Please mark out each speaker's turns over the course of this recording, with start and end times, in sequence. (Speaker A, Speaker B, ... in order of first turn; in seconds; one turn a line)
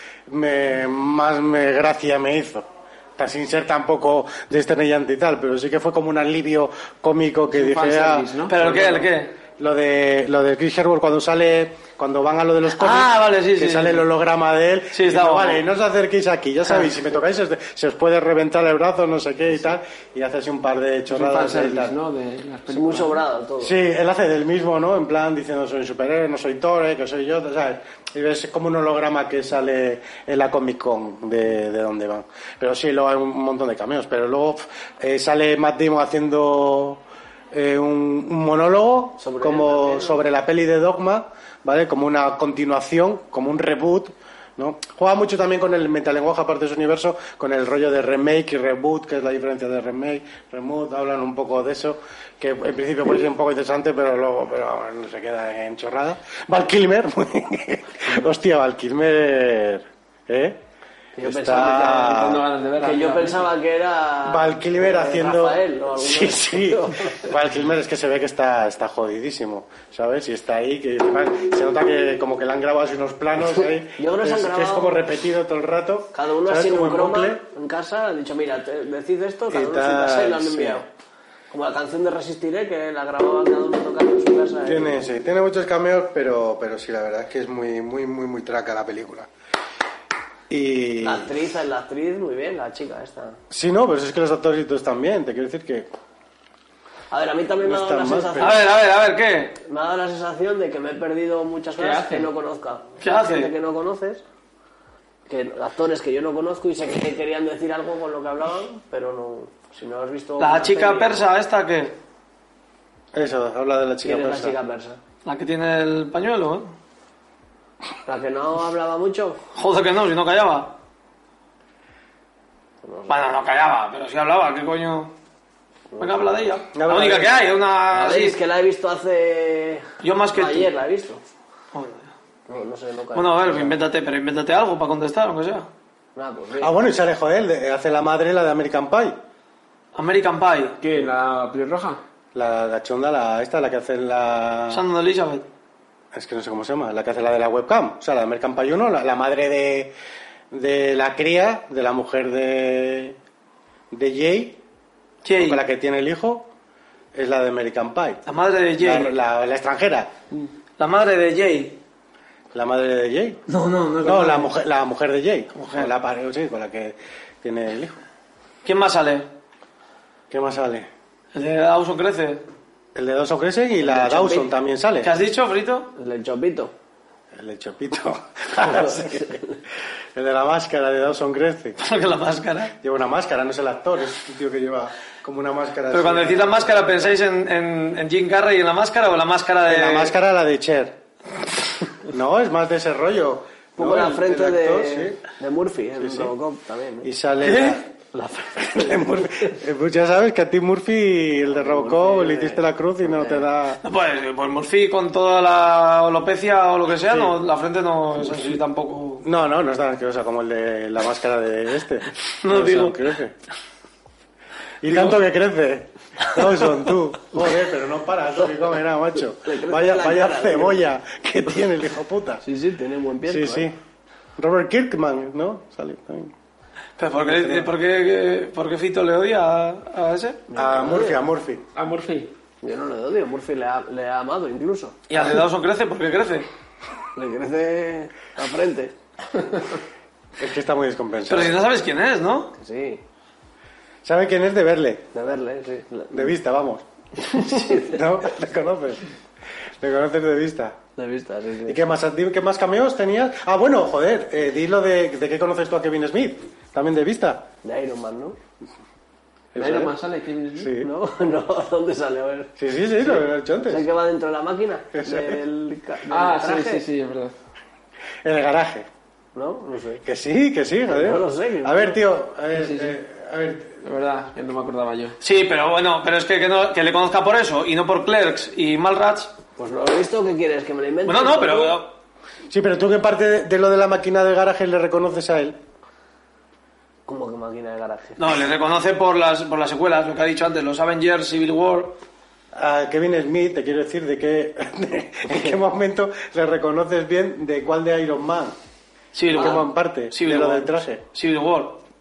Speaker A: 0.3-8.3
Speaker B: 7.5-9.1
Speaker C: 8.5-9.3
Speaker A: 9.6-22.0
Speaker C: 12.8-14.1
Speaker C: 14.9-15.6
Speaker B: 21.1-23.2
Speaker D: 22.7-23.8
Speaker A: 23.6-60.6
Speaker D: 39.2-40.2
Speaker D: 61.2-62.2
Speaker A: 61.2-62.5
Speaker B: 61.8-63.5
Speaker D: 62.8-67.3
Speaker A: 64.2-77.4
Speaker D: 73.9-75.0
Speaker D: 76.1-80.9
Speaker A: 79.5-80.8
Speaker D: 81.5-85.1
Speaker A: 84.6-89.3
Speaker A: 90.5-91.3
Speaker D: 91.0-93.4
Speaker A: 93.5-95.9
Speaker D: 97.1-98.6
Speaker A: 97.6-98.6
Speaker C: 98.4-99.6
Speaker D: 99.7-104.2
Speaker B: 101.8-102.3
Speaker C: 103.0-103.5
Speaker D: 105.3-111.3
Speaker C: 110.4-112.0
Speaker A: 113.1-114.6
Speaker D: 114.0-115.0
Speaker C: 115.2-116.7
Speaker D: 118.1-119.4
Speaker C: 119.5-120.8
Speaker D: 122.8-123.2
Speaker C: 123.1-125.1
Speaker D: 125.9-126.4
Speaker C: 126.0-128.4
Speaker A: 126.7-127.5
Speaker D: 127.9-131.2
Speaker C: 130.0-130.7
Speaker C: 131.7-132.1
Speaker D: 132.5-133.8
Speaker C: 133.1-135.7
Speaker D: 136.2-136.8
Speaker A: 136.6-139.2
Speaker C: 139.9-140.8
Speaker B: 140.8-142.0
Speaker A: 142.3-144.8
Speaker C: 144.7-145.5
Speaker A: 146.1-149.9
Speaker A: 150.5-153.2
Speaker A: 153.9-154.6
Speaker C: 155.2-155.6
Speaker A: 155.3-156.5
Speaker A: 157.1-158.2
Speaker C: 158.3-159.1
Speaker A: 158.8-160.1
Speaker C: 160.8-161.8
Speaker A: 162.5-163.4
Speaker C: 163.5-164.5
Speaker A: 164.0-168.0
Speaker C: 165.6-165.9
Speaker C: 168.6-169.3
Speaker A: 170.3-170.9
Speaker C: 171.3-172.4
Speaker A: 172.9-175.1
Speaker D: 173.8-174.5
Speaker C: 175.0-175.9
Speaker D: 176.0-176.7
Speaker A: 177.3-179.4
Speaker D: 178.6-179.6
Speaker A: 180.2-181.8
Speaker C: 181.8-182.7
Speaker A: 182.8-187.2
Speaker C: 185.9-190.2
Speaker A: 189.7-191.0
Speaker A: 192.0-195.2
Speaker D: 193.8-197.1
Speaker A: 196.0-196.3
Speaker A: 197.0-197.9
Speaker C: 197.4-197.8
Speaker D: 198.1-199.3
Speaker A: 198.6-203.8
Speaker D: 201.5-203.4
Speaker C: 203.8-209.2
Speaker A: 207.1-207.4
Speaker A: 209.2-213.3
Speaker C: 212.4-213.0
Speaker A: 214.8-222.4
Speaker C: 214.9-215.1
Speaker D: 219.4-220.8
Speaker D: 222.4-223.7
Speaker A: 223.2-223.8
Speaker A: 224.4-226.3
Speaker C: 227.0-230.4
Speaker A: 227.2-227.7
Speaker D: 230.5-231.2
Speaker A: 230.6-231.7
Speaker B: 231.8-232.3
Speaker D: 232.6-235.0
Speaker C: 235.1-236.5
Speaker D: 237.2-238.9
Speaker A: 240.4-241.7
Speaker C: 241.3-242.5
Speaker D: 242.6-243.0
Speaker A: 244.0-245.1
Speaker D: 245.1-246.3
Speaker A: 246.1-249.1
Speaker D: 247.2-248.0
Speaker A: 249.8-250.8
Speaker D: 251.0-251.8
Speaker A: 251.7-257.5
Speaker D: 257.6-258.4
Speaker A: 259.5-259.9
Speaker B: 259.6-260.8
Speaker A: 260.6-260.9
Speaker D: 260.8-262.5
Speaker A: 262.6-263.9
Speaker D: 263.1-266.9
Speaker A: 264.9-265.4
Speaker B: 266.1-267.4
Speaker A: 268.2-268.9
Speaker D: 269.4-270.0
Speaker A: 270.0-273.8
Speaker D: 270.9-272.0
Speaker B: 272.5-273.0
Speaker B: 273.8-275.2
Speaker C: 275.2-279.4
Speaker D: 279.6-281.8
Speaker C: 281.1-281.9
Speaker A: 282.5-285.6
Speaker D: 287.1-288.2
Speaker C: 288.2-292.0
Speaker A: 292.5-298.6
Speaker C: 299.1-301.8
Speaker A: 299.3-301.0